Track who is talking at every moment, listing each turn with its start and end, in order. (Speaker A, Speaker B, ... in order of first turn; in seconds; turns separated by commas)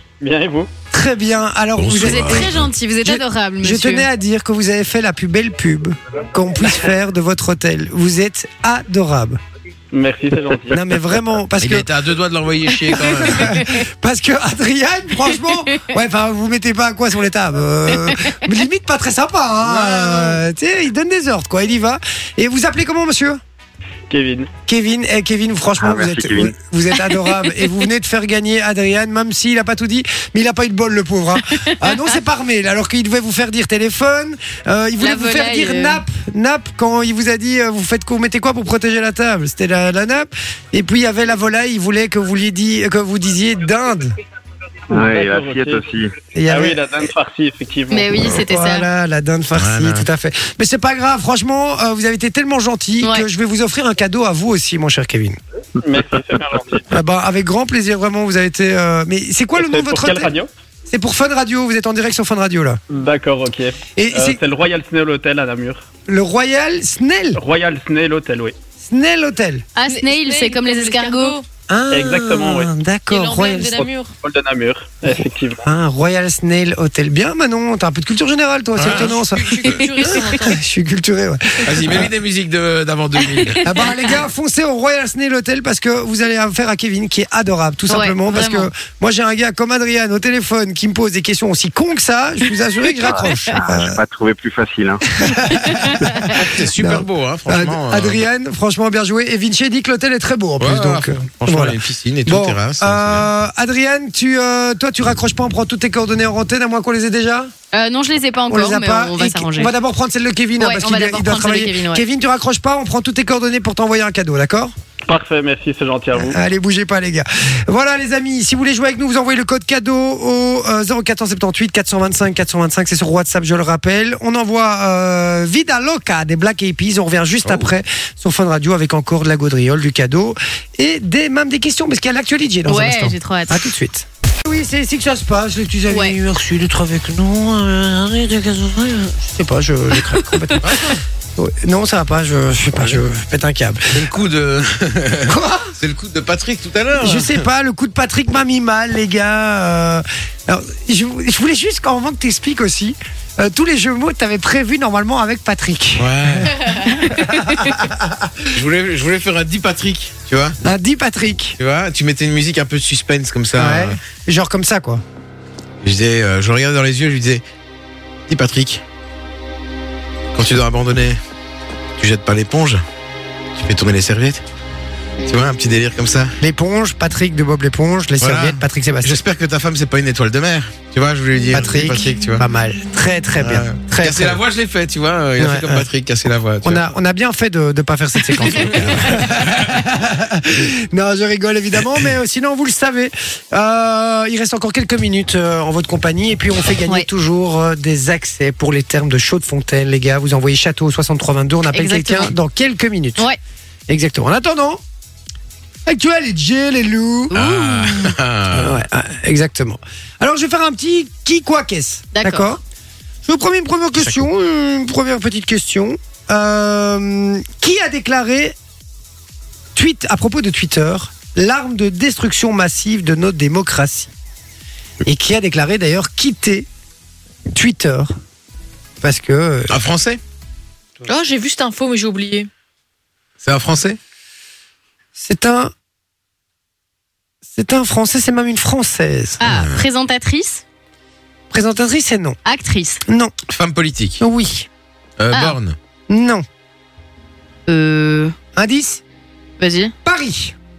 Speaker A: 0.2-0.7, Speaker B: 0.9-9.4, Speaker C: 1.8-2.7, Speaker D: 2.0-4.1, Speaker A: 9.9-10.8, Speaker B: 10.7-11.9, Speaker C: 11.6-13.6, Speaker B: 12.8-23.4, Speaker C: 19.6-20.4, Speaker A: 24.1-24.5, Speaker B: 24.7-44.1, Speaker E: 25.8-26.5, Speaker D: 31.6-32.0, Speaker D: 35.0-36.0, Speaker A: 44.9-45.8, Speaker E: 44.9-46.1, Speaker B: 46.3-47.1, Speaker A: 46.5-48.1, Speaker D: 47.9-48.9, Speaker B: 48.1-55.4, Speaker C: 49.5-50.0, Speaker A: 55.8-56.9, Speaker B: 56.9-60.3, Speaker A: 59.6-60.5, Speaker B: 60.9-62.8, Speaker A: 62.9-65.8, Speaker B: 64.0-64.4, Speaker B: 66.1-67.4, Speaker A: 67.3-68.5, Speaker B: 68.8-69.7, Speaker D: 69.8-71.4, Speaker F: 69.9-71.5, Speaker B: 71.7-73.9, Speaker A: 71.9-72.7, Speaker F: 73.1-74.1, Speaker A: 74.2-75.7, Speaker B: 75.0-82.1, Speaker C: 78.8-79.9, Speaker F: 78.8-80.6, Speaker C: 81.6-83.7, Speaker D: 83.2-83.6, Speaker B: 83.6-94.0, Speaker D: 87.9-88.7, Speaker E: 92.9-95.3, Speaker B: 95.1-107.5, Speaker D: 95.6-96.3, Speaker C: 96.3-98.2, Speaker C: 100.6-103.3, Speaker D: 107.7-109.7, Speaker B: 108.5-114.7, Speaker D: 110.6-112.0, Speaker A: 115.1-116.4, Speaker B: 116.1-144.1, Speaker D: 132.7-133.7, Speaker D: 135.9-136.2, Speaker C: 140.6-140.9, Speaker C: 143.9-147.4, Speaker B: 145.3-145.7, Speaker B: 147.0-158.5, Speaker C: 156.0-156.5, Speaker D: 156.8-157.6, Speaker C: 158.5-160.6, Speaker B: 160.6-161.6, Speaker C: 161.6-164.0, Speaker B: 163.6-165.0, Speaker C: 165.8-167.4, Speaker C: 168.3-168.8, Speaker C: 170.3-171.2, Speaker C: 172.0-172.8, Speaker C: 173.5-174.4, Speaker C: 175.2-176.3, Speaker B: 176.4-179.2, Speaker C: 178.2-182.4, Speaker B: 181.5-184.4, Speaker C: 183.4-186.9, Speaker B: 185.4-185.9, Speaker B: 186.6-203.3, Speaker C: 188.3-189.8, Speaker D: 201.7-202.3, Speaker B: 203.9-204.8, Speaker B: 205.8-207.3, Speaker D: 207.3-208.2, Speaker C: 207.3-208.8, Speaker B: 208.5-212.6, Speaker D: 212.1-212.6, Speaker B: 213.2-218.6, Speaker B: 219.7-224.1, Speaker B: 225.0-226.7, Speaker B: 227.5-228.1, Speaker B: 229.0-229.8, Speaker C: 229.7-230.2, Speaker F: 231.0-232.5, Speaker C: 233.4-234.0, Speaker B: 235.2-235.7, Speaker B: 237.5-239.4, Speaker D: 239.4-240.6, Speaker C: 239.4-239.8, Speaker B: 241.5-242.4, Speaker D: 242.4-243.0, Speaker B: 243.1-243.3, Speaker C: 243.5-244.2, Speaker B: 244.2-244.7, Speaker C: 245.2-245.8, Speaker D: 245.3-245.6, Speaker B: 246.1-246.4, Speaker D: 247.7-248.3, Speaker B: 248.6-249.0, Speaker D: 249.6-249.9, Speaker B: 250.0-250.5